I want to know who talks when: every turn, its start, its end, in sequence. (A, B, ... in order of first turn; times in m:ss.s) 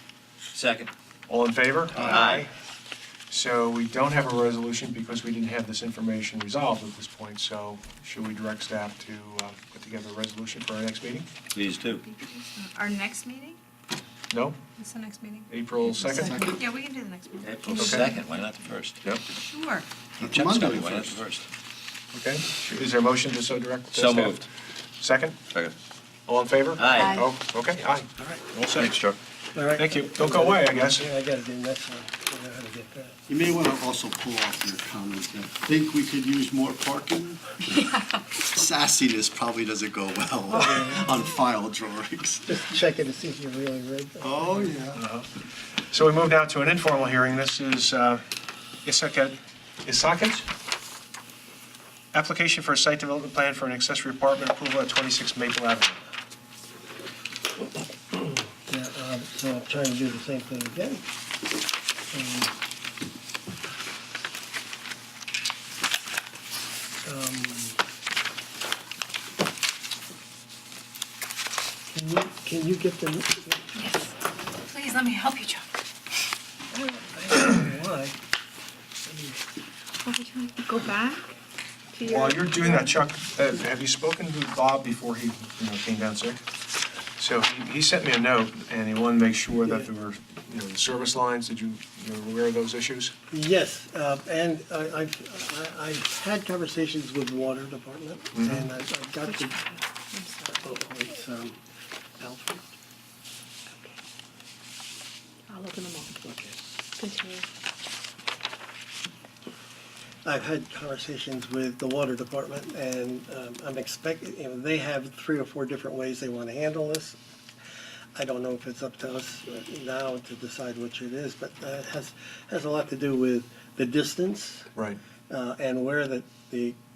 0:00.5-0:00.9 A
0:01.3-0:02.5 B
0:02.0-0:02.5 A
0:03.3-0:11.2 B
0:11.5-0:12.0 A
0:12.0-0:13.6 C
0:14.3-0:14.6 B
0:14.8-0:18.2 C
0:15.5-0:16.4 B
0:16.0-0:16.6 D
0:17.4-0:19.0 A
0:17.7-0:18.1 B
0:19.3-0:19.8 C
0:20.2-0:21.3 D
0:20.3-0:21.5 A
0:22.1-0:24.4 B
0:23.9-0:24.5 A
0:25.0-0:25.4 B
0:26.3-0:28.9 B
0:26.8-0:27.2 A
0:27.0-0:27.2 C
0:28.7-0:29.2 A
0:29.5-0:33.2 E
0:29.7-0:31.1 B
0:33.3-0:42.6 D
0:40.6-0:41.3 E
0:42.5-0:44.6 E
0:44.2-0:45.0 D
0:44.9-0:45.3 B
0:45.9-0:48.2 B
0:48.8-0:50.5 B
0:52.1-0:56.0 B
0:58.6-1:01.0 E
1:02.1-1:02.6 E
1:07.0-1:07.8 E
1:11.9-1:13.7 E
1:13.7-1:15.6 C
1:16.7-1:18.2 E
1:19.0-1:19.4 E
1:20.0-1:21.2 C
1:21.9-1:22.9 C
1:22.0-1:26.4 B
1:27.2-1:33.1 B
1:33.3-1:39.6 E
1:38.3-1:38.7 B
1:39.2-1:40.8 C
1:40.6-1:41.6 E
1:42.2-1:42.7 E
1:45.5-1:47.4 C
1:50.2-1:57.2 E
1:58.2-2:04.7 E
2:05.3-2:06.8 E